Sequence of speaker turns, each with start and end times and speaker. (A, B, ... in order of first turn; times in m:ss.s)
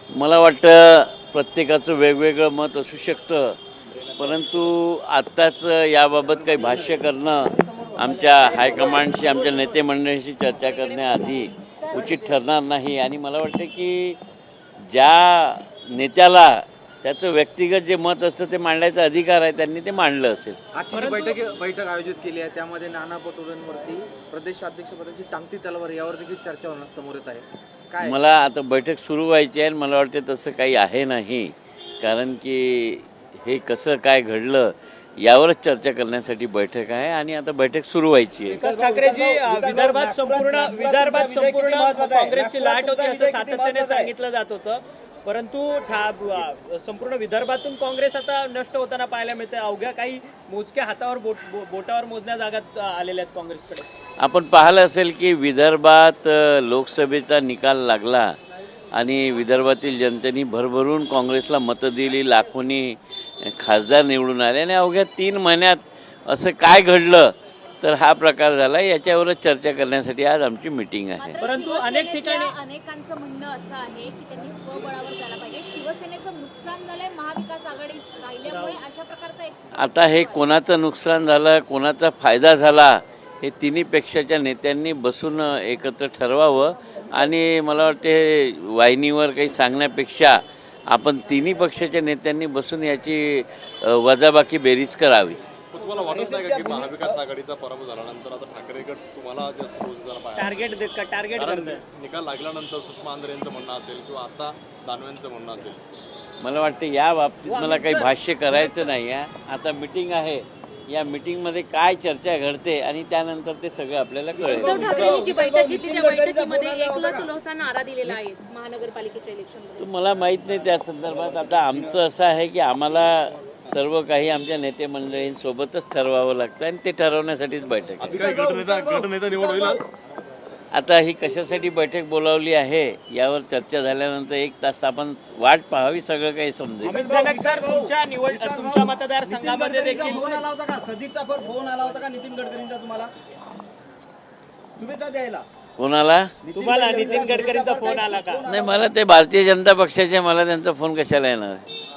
0:00.1-0:03.6 A
0:04.2-0:14.2 A
0:14.9-0:20.6 A
0:20.7-0:28.2 B
0:20.9-0:21.4 C
0:28.0-0:38.6 A
0:38.5-0:44.1 B
0:38.6-0:53.9 C
0:54.2-0:58.4 A
0:58.9-1:11.4 A
1:11.2-1:20.2 D
1:11.4-1:12.6 C
1:18.4-1:18.8 C
1:19.8-1:35.4 A
1:35.7-1:40.7 E
1:35.9-1:37.2 B
1:40.4-1:41.9 C
1:41.4-1:45.8 E
1:46.4-1:55.1 A
1:47.4-1:48.9 C
1:54.4-1:57.3 B
1:54.6-1:59.9 F
1:59.8-2:08.2 A
2:08.0-2:09.9 E
2:08.1-2:09.8 B
2:10.7-2:17.0 A
2:16.8-2:20.4 C
2:16.9-2:23.1 B
2:24.8-2:25.5 B
2:25.8-2:26.3 A
2:26.4-2:28.9 B
2:26.6-2:28.5 C
2:28.5-2:31.6 A